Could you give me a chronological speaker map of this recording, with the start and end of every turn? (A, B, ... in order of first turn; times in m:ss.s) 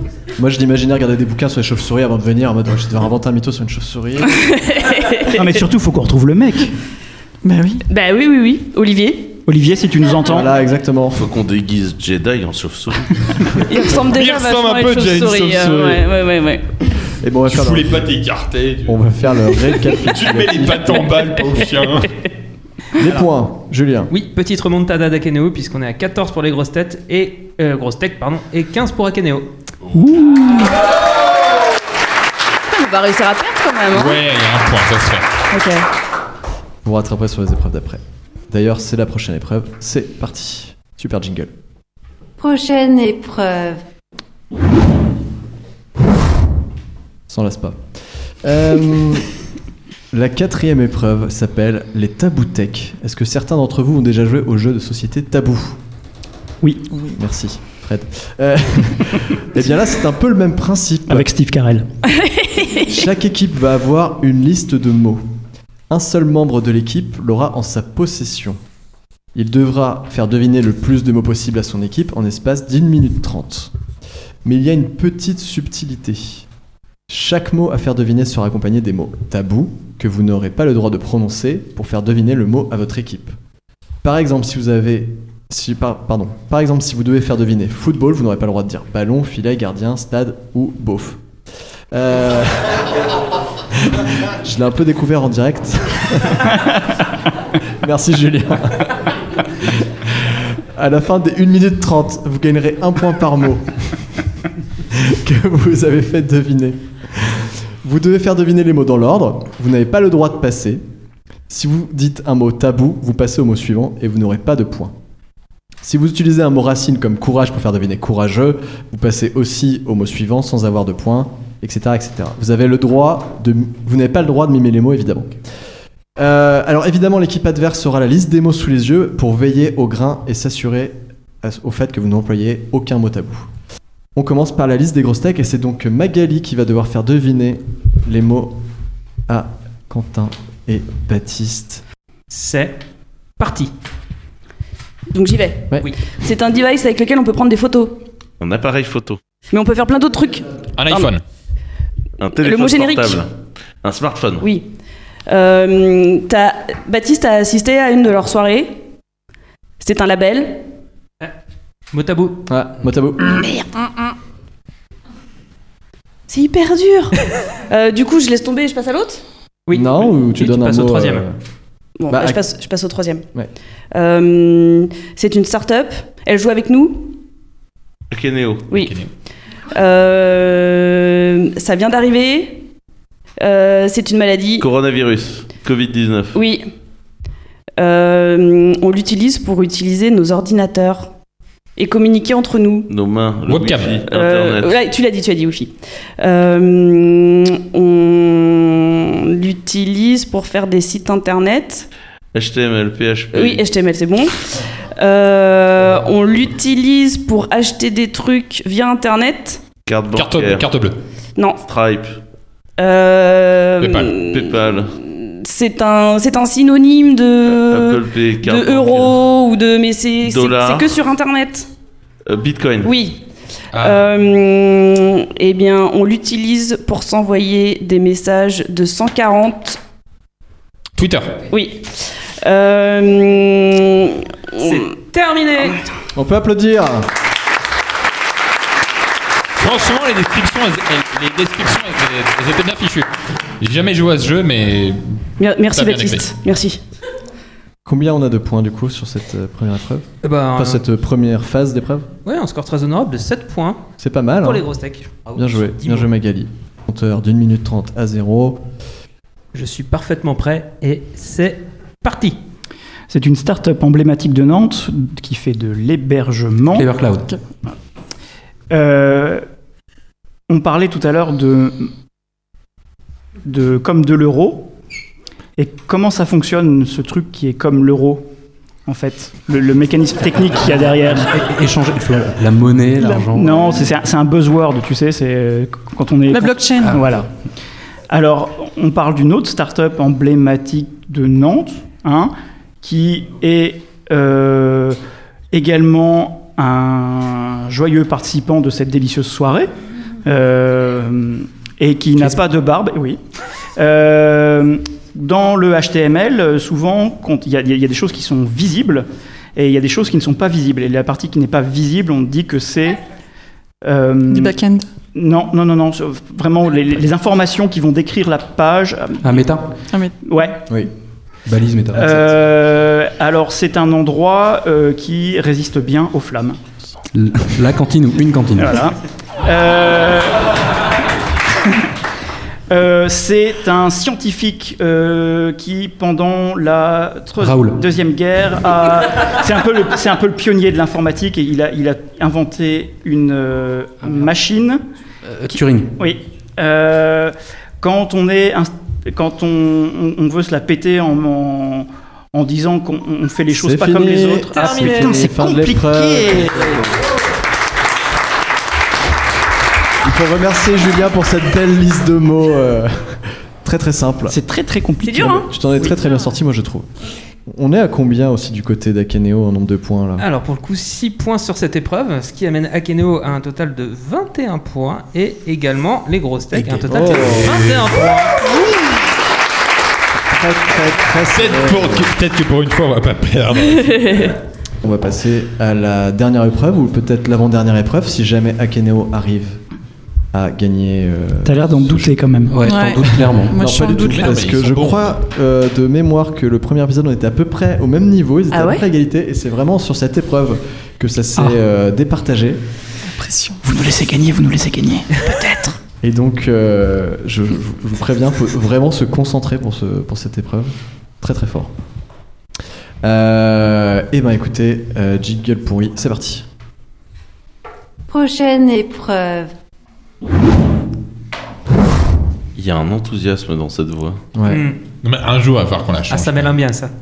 0:00.4-0:04.4 A
0:04.4-0:05.5 B
0:05.3-0:06.7 C
0:07.4-0:07.8 D
0:07.9-0:09.4 B
0:09.5-0:10.5 C
0:10.2-0:11.2 A
0:11.1-0:13.6 E
0:13.7-0:16.7 B
0:14.0-0:16.0 F
0:17.2-0:18.1 A
0:17.5-0:19.0 F
0:18.9-0:21.0 A
0:20.1-0:22.2 F
0:23.0-0:24.1 A
0:24.1-0:29.5 G
0:29.9-0:30.7 C
0:32.7-0:34.2 B
0:33.9-0:35.3 F
0:35.5-0:35.8 B
0:36.8-0:41.5 A
0:42.4-0:43.8 H
0:47.3-0:47.8 A
0:48.4-0:49.3 A
0:50.1-0:55.8 A
0:56.6-0:56.9 C
0:57.1-1:01.3 A
1:01.1-1:01.9 C
1:02.2-1:02.8 B
1:02.8-1:05.3 A
1:05.9-1:08.6 A
1:09.3-1:13.7 A
1:14.4-1:16.4 A
1:17.1-1:23.4 A
1:24.0-1:31.2 A
1:31.9-1:33.0 A
1:33.7-1:36.7 A
1:37.8-1:39.0 A
1:39.6-1:44.0 A
1:44.9-1:50.8 A
1:51.5-1:55.0 A
1:55.8-2:05.4 A
2:06.2-2:13.5 A
2:14.1-2:18.6 A
2:19.3-2:21.8 A
2:22.3-2:22.8 G
2:23.4-2:23.7 G
2:25.1-2:28.0 B
2:28.4-2:29.2 E
2:29.5-2:31.1 B
2:30.8-2:31.2 F
2:32.2-2:33.3 E
2:32.3-2:33.2 B
2:33.8-2:34.4 E
2:34.4-2:34.7 B
2:35.3-2:38.8 B
2:39.8-2:40.6 B
2:41.9-2:42.4 G
2:42.5-2:43.4 A
2:46.3-2:47.2 B
2:47.7-2:49.2 B
2:49.7-2:51.2 G
2:49.7-2:51.4 A
2:52.0-2:53.2 B
2:52.1-2:52.4 A
2:53.9-2:57.2 B
2:58.1-2:58.7 E
2:58.7-2:59.0 B
2:58.7-2:59.1 F
2:59.7-3:02.6 B
3:03.4-3:04.6 B
3:04.6-3:06.4 E
3:06.3-3:06.7 B
3:07.8-3:11.1 B
3:11.8-3:12.9 B
3:12.9-3:14.8 E
3:13.4-3:14.0 F
3:14.0-3:21.9 B
3:22.3-3:23.6 E
3:23.3-3:29.6 B
3:29.8-3:30.7 E
3:30.1-3:31.0 F
3:31.4-3:31.6 B
3:31.6-3:32.2 E
3:32.8-3:41.7 B
3:33.8-3:34.1 F
3:34.2-3:34.9 E
3:37.6-3:39.2 E
3:40.2-3:40.9 E
3:42.3-3:42.9 E
3:42.8-3:43.2 B
3:43.7-3:44.1 F
3:43.8-3:49.8 B
3:51.0-3:51.4 F
3:51.5-3:55.7 B
3:54.6-3:55.7 G
3:56.1-3:57.1 A
3:59.6-4:05.0 F
4:05.4-4:06.8 B
4:05.7-4:06.3 F
4:07.8-4:12.1 A
4:10.2-4:10.8 G
4:12.2-4:13.8 G
4:14.0-4:14.7 A
4:14.4-4:16.1 G
4:15.3-4:18.6 A
4:19.5-4:22.4 G
4:23.1-4:26.9 C
4:26.7-4:27.3 I
4:28.7-4:29.4 C
4:30.5-4:31.9 C
4:33.4-4:34.7 C
4:35.6-4:38.3 C
4:38.8-4:41.3 C
4:41.2-4:43.9 I
4:43.0-4:47.3 C
4:46.3-4:47.0 D
4:46.8-4:47.1 I
4:48.1-4:55.0 C
4:55.5-4:59.7 C
5:00.2-5:03.2 C
5:02.2-5:02.4 I
5:03.8-5:13.0 C
5:13.8-5:14.6 C
5:14.3-5:14.9 D
5:15.1-5:19.5 C
5:19.2-5:19.7 I
5:20.2-5:20.7 C
5:21.5-5:22.4 I
5:21.9-5:26.6 C
5:27.1-5:28.8 I
5:28.6-5:30.5 C
5:32.7-5:44.8 C
5:37.4-5:37.8 I
5:45.3-5:45.9 I
5:45.5-5:56.8 C
5:53.5-5:56.8 A
6:00.0-6:04.4 A
6:04.3-6:05.5 C
6:05.0-6:05.5 B
6:05.4-6:06.9 A
6:07.5-6:10.2 A
6:10.2-6:18.6 G
6:16.5-6:16.9 I
6:16.9-6:17.6 A
6:17.3-6:17.9 F
6:20.3-6:22.1 A
6:21.3-6:24.2 F
6:23.9-6:24.3 B
6:24.8-6:29.6 A
6:30.3-6:32.2 A
6:31.4-6:32.6 C
6:32.5-6:33.7 I
6:32.6-6:34.4 D
6:33.1-6:42.6 A
6:34.0-6:35.1 F
6:38.5-6:38.8 B
6:43.1-6:43.6 D
6:43.6-6:45.8 C
6:46.0-6:51.7 A
6:53.0-6:56.4 A
6:58.1-6:59.5 H
7:02.6-7:04.2 E
7:04.3-7:04.6 A
7:04.4-7:04.8 G
7:05.0-7:06.6 F
7:06.1-7:06.9 G